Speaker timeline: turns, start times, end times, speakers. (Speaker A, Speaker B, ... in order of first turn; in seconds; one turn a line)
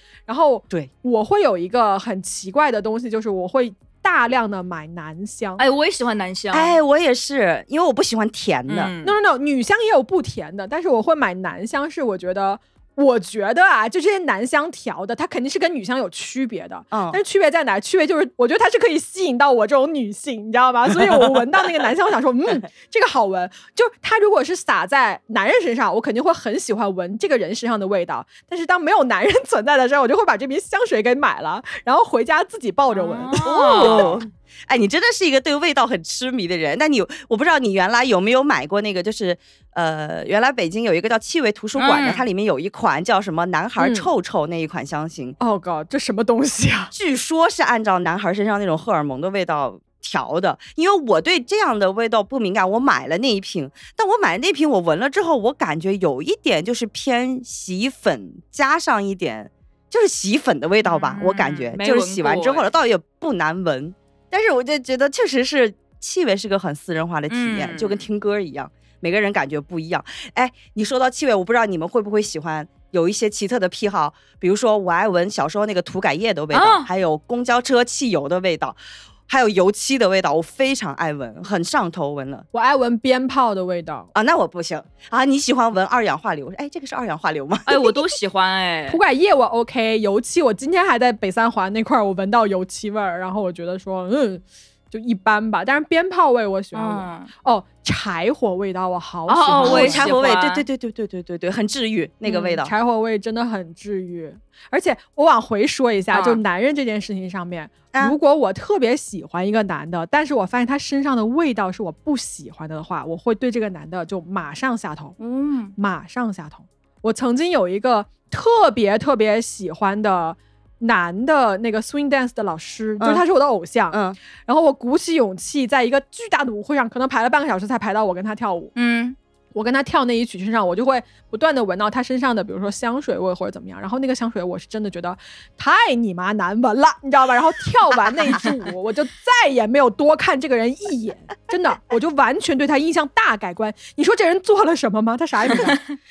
Speaker A: 0.3-5.6
Speaker B: 5.6-6.8
Speaker C: 6.5-8.9
Speaker B: 8.7-9.2
Speaker A: 9.0-34.2
Speaker C: 16.9-17.2
Speaker B: 32.9-34.2
Speaker C: 33.4-45.4
Speaker B: 41.8-42.2
Speaker A: 43.8-44.1
Speaker A: 45.4-46.9
Speaker C: 46.9-82.5
Speaker B: 60.8-62.7
Speaker B: 67.3-68.0
Speaker B: 76.5-76.9
Speaker A: 82.5-84.1
Speaker C: 84.1-88.0
Speaker B: 87.7-89.0
Speaker A: 88.9-100.1
Speaker B: 96.7-97.3
Speaker B: 99.3-100.6
Speaker C: 99.6-102.7
Speaker A: 102.2-115.2
Speaker B: 106.1-106.4
Speaker B: 115.2-115.7
Speaker A: 115.8-128.7
Speaker C: 123.9-124.2
Speaker B: 128.7-129.2
Speaker A: 129.5-145.8